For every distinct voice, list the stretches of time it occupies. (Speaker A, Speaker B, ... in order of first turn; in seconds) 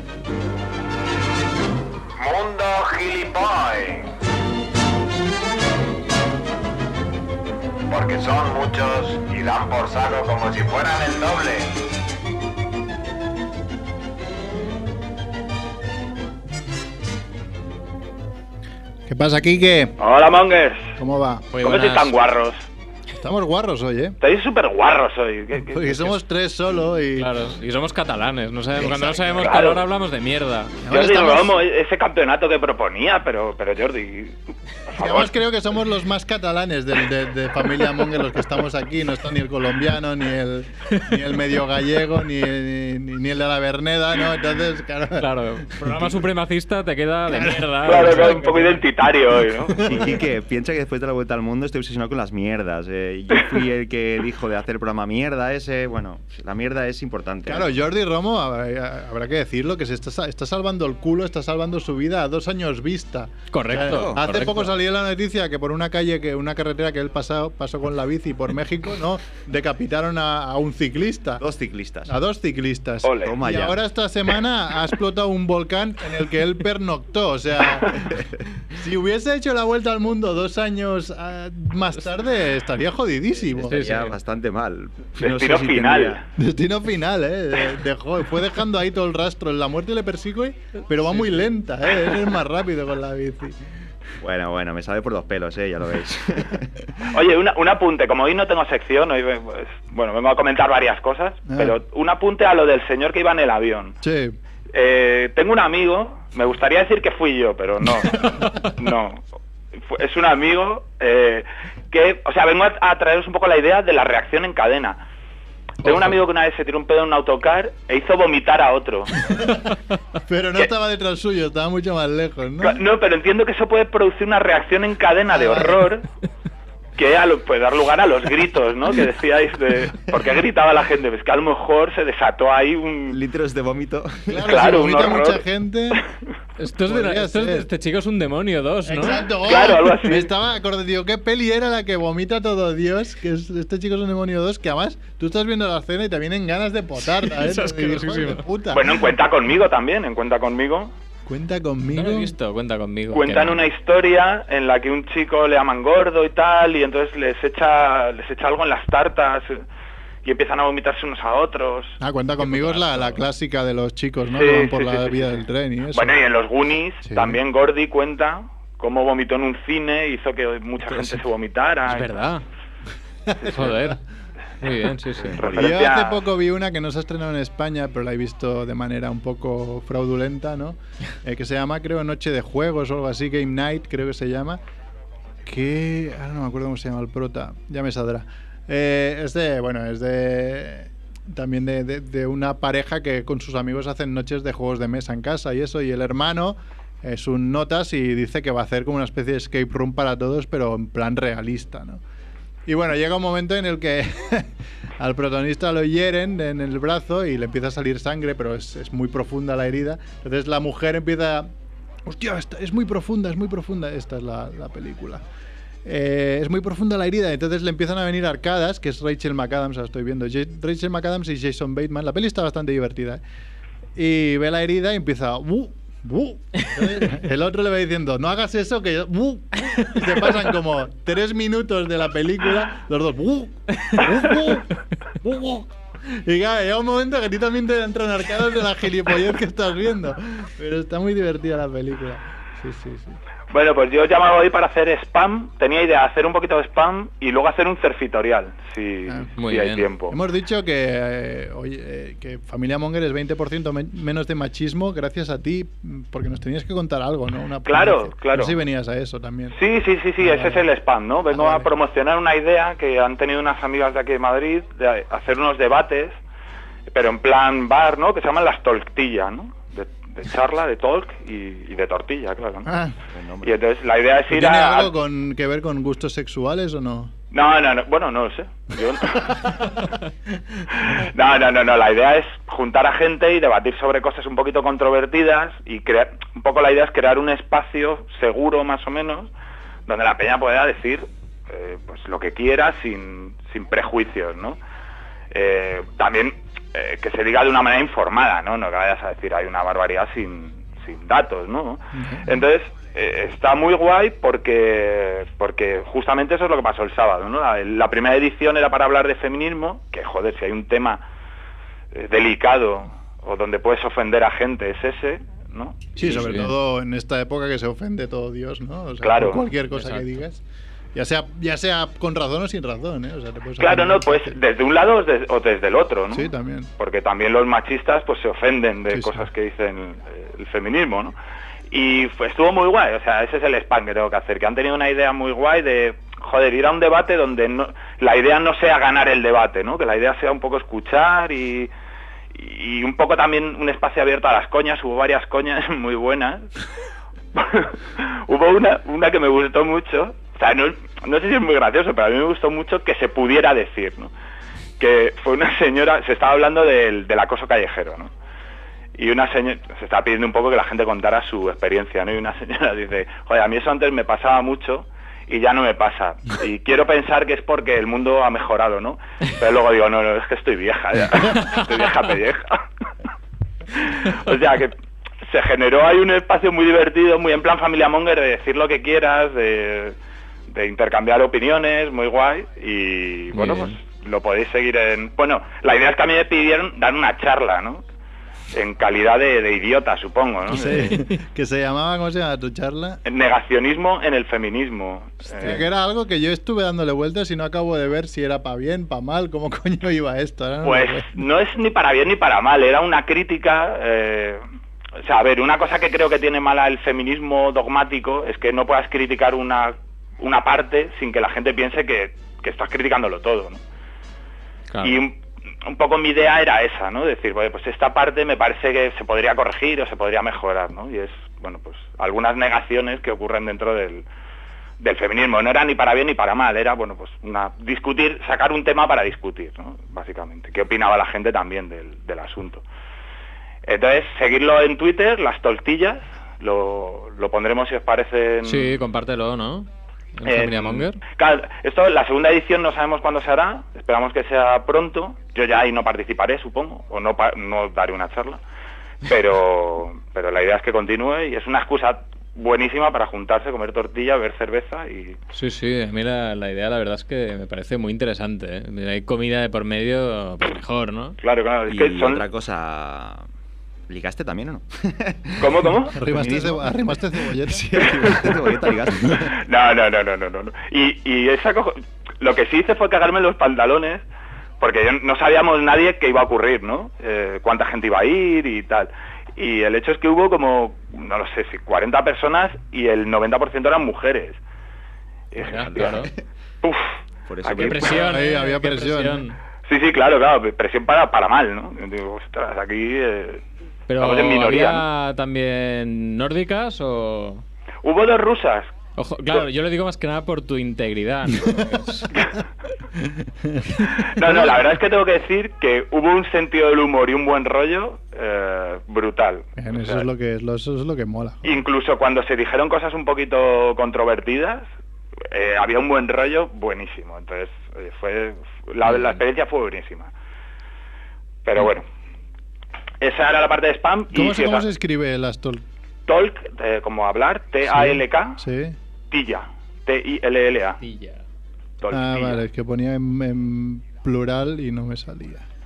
Speaker A: 2.2-4.1, 7.9-11.7
Speaker B: 19.1-20.0, 21.0-21.5, 23.1-24.2, 25.6-27.3, 28.8-29.6, 30.8-31.6, 34.9-46.2, 47.3-48.5, 49.7-50.3, 57.5-71.4, 72.1-78.1, 78.7-83.8, 86.4-93.6, 101.5-101.8, 104.0-104.4, 108.2-108.5, 120.2-122.8, 125.3-125.9, 134.3-136.0, 136.8-137.7, 138.8-149.0, 151.3-152.3, 162.0-166.2, 167.1-167.4, 173.3-173.9, 175.5-184.6, 185.4-202.0, 202.7-211.5, 212.1-215.2, 215.8-223.2, 224.0-243.2, 250.1-259.6, 260.2-260.7, 261.3-261.7, 272.6-273.0, 274.3-277.1, 301.9-302.4, 316.0-320.4, 320.9-324.4, 326.1-326.7, 328.9-329.3, 390.5-393.0, 395.3-401.2, 465.9-467.8, 487.8-489.2, 503.0-504.7, 509.6-511.6, 524.1-525.6, 527.7-528.8, 531.9-535.5
Speaker C: 20.0-20.9, 21.6-22.7, 24.2-26.1, 29.4-29.8, 30.9-34.4, 34.9-35.3, 47.8-49.9, 73.0-73.3, 85.2-86.2, 97.1-104.0, 104.7-109.3, 109.8-115.0, 115.8-119.2, 122.6-126.1, 127.0-133.2, 134.4-135.4, 139.4-140.3, 148.7-150.9, 153.1-159.6, 160.2-162.0, 164.3-165.3, 165.9-172.1, 175.4-176.2, 243.5-250.2, 257.7-258.6, 259.6-266.2, 266.9-272.7, 273.4-274.9, 277.3-279.7, 280.7-289.3, 289.9-294.6, 295.3-311.0, 311.9-315.9, 319.0-319.5, 323.6-331.1, 331.7-341.7, 342.3-346.5, 347.3-354.1, 354.8-358.1, 359.0-372.6, 373.7-380.0, 380.5-387.8, 388.5-390.9, 393.1-395.6, 400.6-404.4, 405.0-413.6, 414.8-424.1, 424.8-432.6, 433.7-438.8, 440.3-448.4, 449.1-455.2, 461.2-462.2, 465.4-465.9, 469.3-474.0, 474.6-484.4, 485.3-486.0, 486.6-486.9, 487.4-488.0, 489.7-493.4, 494.0-494.8, 497.8-498.7, 504.0-510.1, 511.4-514.7, 515.3-520.1, 521.5-521.9, 523.0-524.7, 526.1-528.4, 529.1-530.8, 531.8-532.4
Speaker D: 21.5-22.1, 27.1-30.8, 45.2-48.8, 63.5-64.7, 83.7-84.1, 136.6-139.3, 147.1-148.4, 151.9-153.6, 162.4-163.2, 171.9-172.4, 173.4-174.0, 174.6-175.4, 249.4-249.9, 316.0-316.5, 319.7-320.1, 383.3-383.8, 390.5-391.2, 414.7-415.0, 438.4-441.0, 455.3-461.2, 485.4-486.1, 487.6-489.4, 493.9-497.4, 499.0-502.2, 518.8-519.2, 530.8-531.2
Speaker E: 49.8-57.7, 63.7-64.2, 71.4-72.1, 73.2-73.8, 83.5-86.2, 94.2-97.1, 133.1-134.7, 175.2-175.6, 273.1-273.5, 461.7-463.3, 463.9-469.4, 485.5-486.2, 487.3-488.1